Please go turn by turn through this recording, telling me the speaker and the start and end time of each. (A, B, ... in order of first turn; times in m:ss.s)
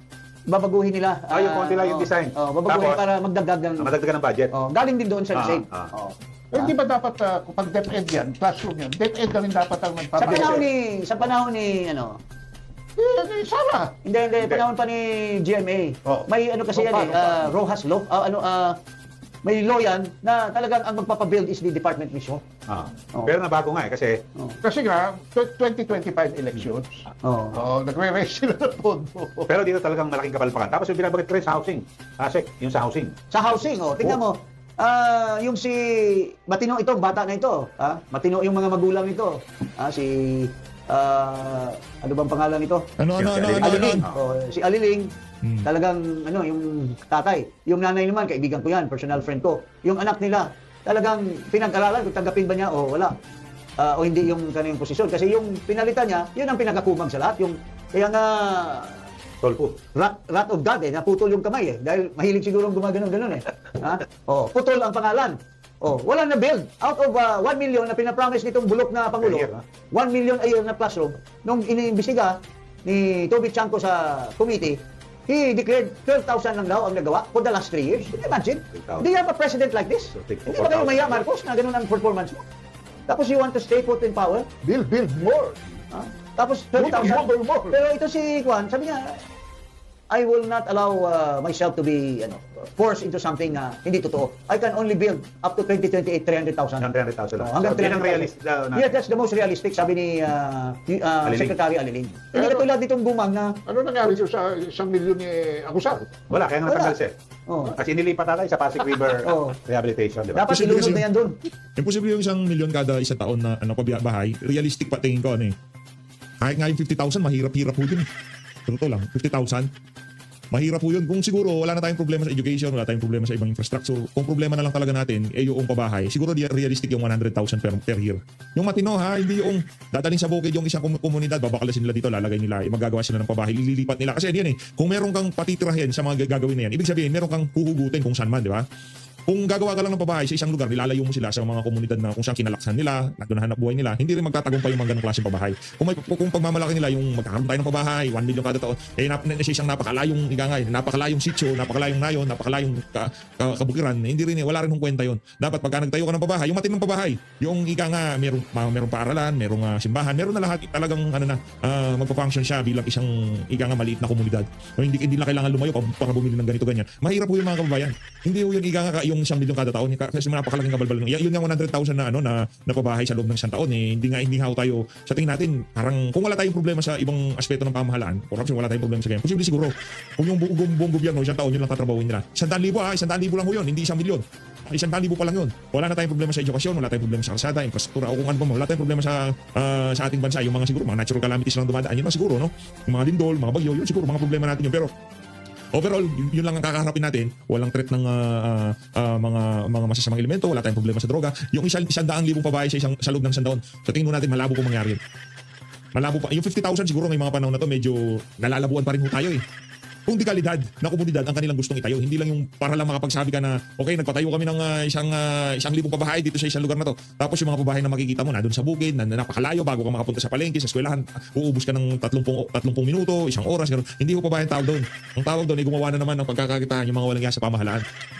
0:00.5-0:03.9 A
0:01.3-0:03.0 B
0:03.8-0:04.5 B
0:04.5-0:06.7 A
0:05.3-0:05.9 B
0:06.5-0:10.6 C
0:10.2-0:12.2 A
0:13.0-0:13.9 C
0:14.0-0:18.8 A
0:14.4-0:14.6 B
0:16.7-0:17.5 C
0:19.4-0:22.4 A
0:22.7-0:24.2 B
0:24.6-0:27.0 C
0:27.2-0:27.6 A
0:27.5-0:29.5 C
0:29.4-0:33.2 B
0:33.3-0:42.9 A
0:43.0-0:44.0 D
0:43.2-0:44.2 B
0:43.6-0:45.1 A
0:45.4-0:45.7 D
0:45.6-0:53.2 A
0:53.8-0:59.0 A
0:59.4-0:59.8 B
0:59.9-1:22.4 A
1:09.2-1:09.6 B
1:18.7-1:19.1 B
1:20.2-1:21.2 B
1:23.1-1:24.5 A
1:24.6-1:25.6 C
1:25.9-1:29.2 A
1:26.8-1:27.8 C
1:30.1-1:36.9 A
1:36.8-1:39.0 B
1:37.4-1:43.6 A
1:41.2-1:41.6 B
1:42.3-1:42.7 C
1:43.7-1:46.2 C
1:46.3-1:47.1 B
1:46.7-1:47.0 A
1:47.5-1:47.8 A
1:47.7-1:50.6 B
1:49.1-1:49.6 A
1:50.3-1:51.4 A
1:50.5-1:51.0 D
1:51.8-1:55.5 D
1:56.4-1:58.1 D
1:58.7-1:59.7 D
2:00.5-2:18.6 D
2:19.3-3:14.9 D
3:15.7-3:25.0 D
3:25.9-3:29.4 D
3:30.1-3:47.8 D